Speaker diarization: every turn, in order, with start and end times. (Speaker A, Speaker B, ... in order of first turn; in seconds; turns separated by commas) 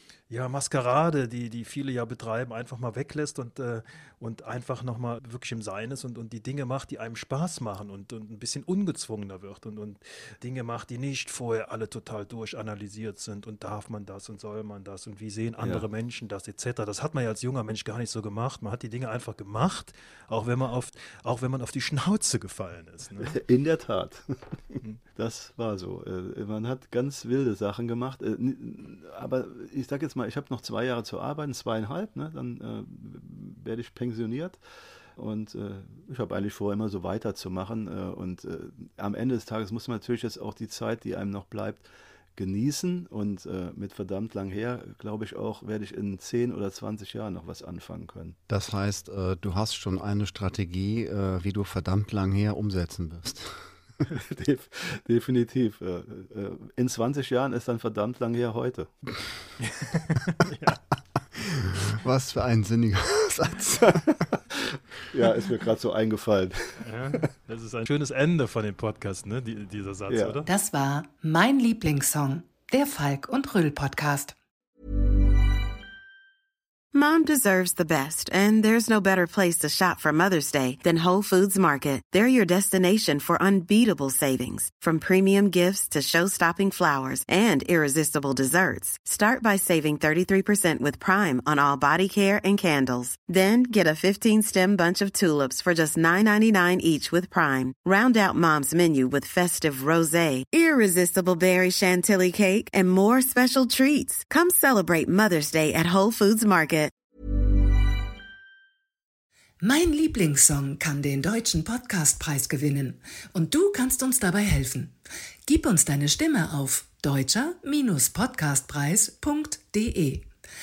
Speaker A: 0.3-23.4, Speaker B: 15.6-15.9, Speaker B: 23.2-34.6, Speaker B: 35.2-48.4, Speaker C: 48.5-53.6, Speaker B: 54.0-58.9, Speaker A: 59.6-60.8, Speaker C: 61.4-64.1, Speaker B: 63.9-67.2, Speaker A: 66.8-70.5, Speaker B: 70.1-70.4, Speaker D: 70.5-74.4, Speaker E: 76.9-106.9, Speaker D: 109.6-114.9, Speaker D: 115.5-120.3